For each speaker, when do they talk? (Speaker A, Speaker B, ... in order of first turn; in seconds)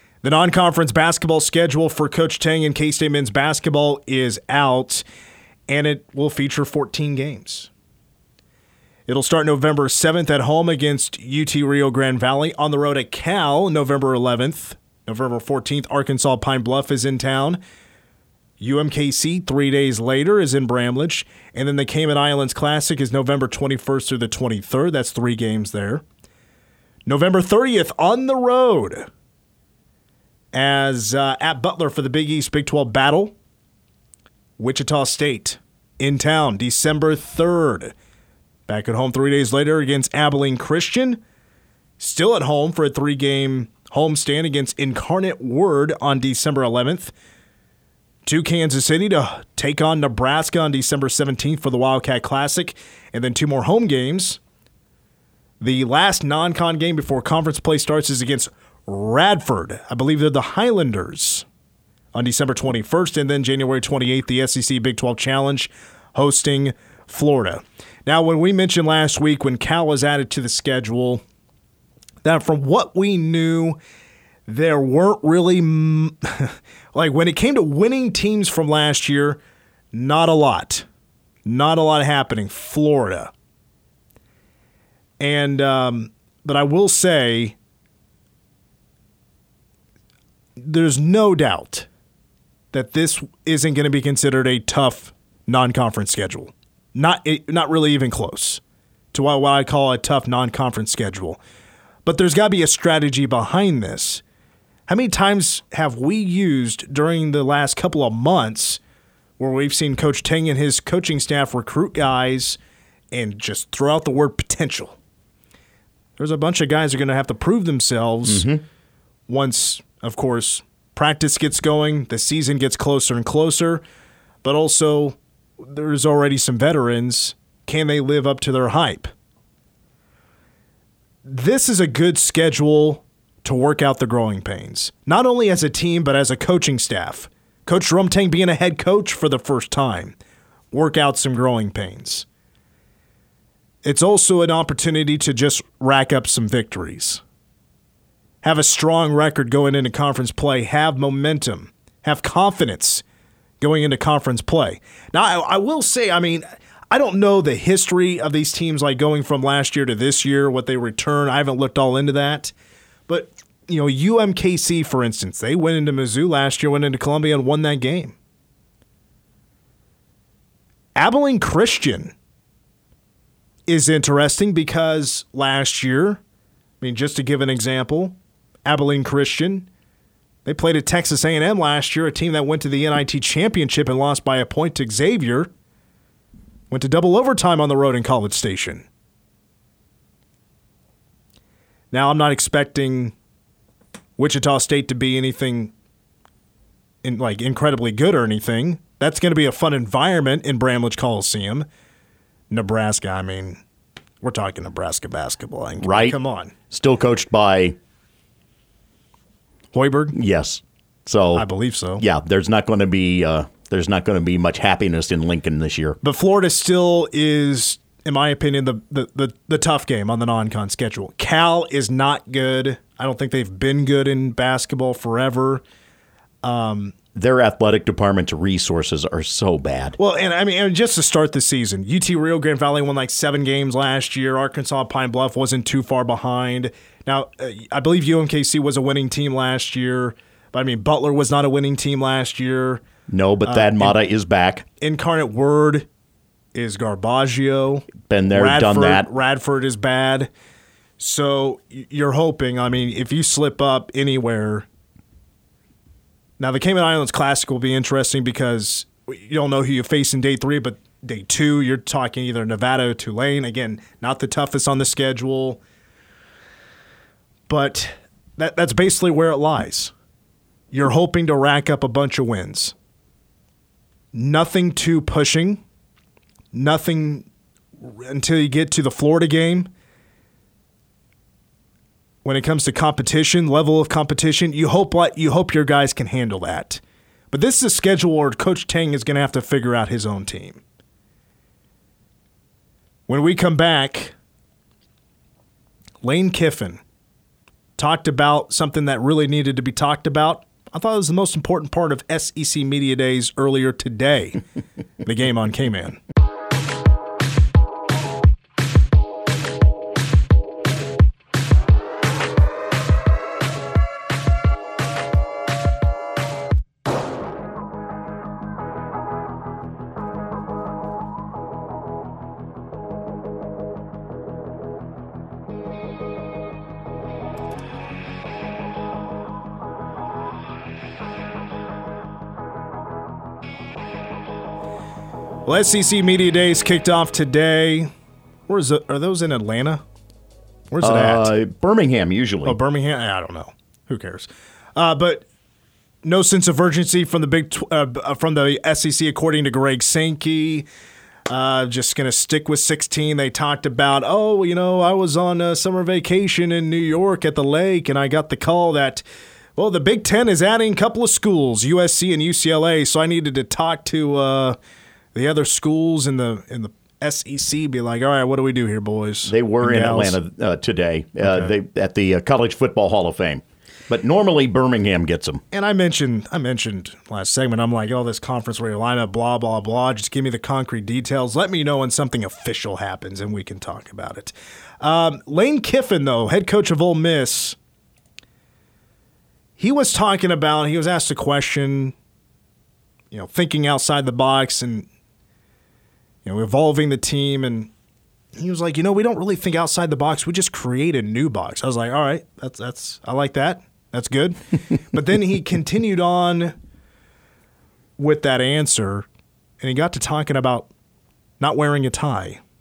Speaker A: 0.2-5.0, 5.7-7.7, 9.1-17.6, 18.6-26.0, 27.1-29.1, 30.5-33.4, 34.6-37.9, 38.7-41.2, 42.0-47.1, 48.2-54.4, 55.6-61.5, 62.1-71.2, 72.2-73.8, 74.5-79.4, 79.9-80.9, 81.5-83.3, 85.2-87.6, 90.6-91.9, 92.7-98.6, 99.1-101.4, 102.0-104.2, 104.9-108.8, 109.4-112.6, 113.1-115.0, 116.2-118.5, 119.3-123.8, 124.4-129.1, 131.2-140.2, 140.7-142.3, 143.8-147.2, 148.4-153.0, 153.6-162.5, 163.1-168.2, 171.0-172.1, 173.7-176.2, 176.8-179.7, 180.4-185.5, 186.7-188.9, 191.9-193.1, 194.2-195.7, 197.0-201.7, 202.5-203.6, 204.2-206.5, 209.7-210.2, 211.4-212.0, 216.0-225.6, 226.4-226.9, 230.0-242.8, 243.4-244.0, 244.8-245.9, 246.5-250.3, 251.0-254.7, 256.4-265.6, 267.5-269.9, 270.7-272.7, 274.1-275.6, 276.5-277.3, 277.8-279.7, 282.2-290.6, 293.1-294.1, 296.0-296.8, 297.8-304.4, 305.0-306.0, 335.4-337.9, 338.5-339.8, 340.7-341.3, 342.4-345.3, 346.0-350.7, 351.3-359.0, 359.6-364.6, 365.1-370.2, 371.2-371.5, 375.5-387.6, 389.6-391.9, 393.1-394.9, 396.2-397.7, 398.4-406.5, 408.0-409.1, 409.6-410.7, 411.4-412.4
Speaker B: 118.3-118.6, 205.8-206.2, 206.7-207.8, 210.1-211.5, 212.0-216.0, 227.2-230.0, 243.1-244.7, 248.1-249.1, 340.8-342.6, 369.2-375.4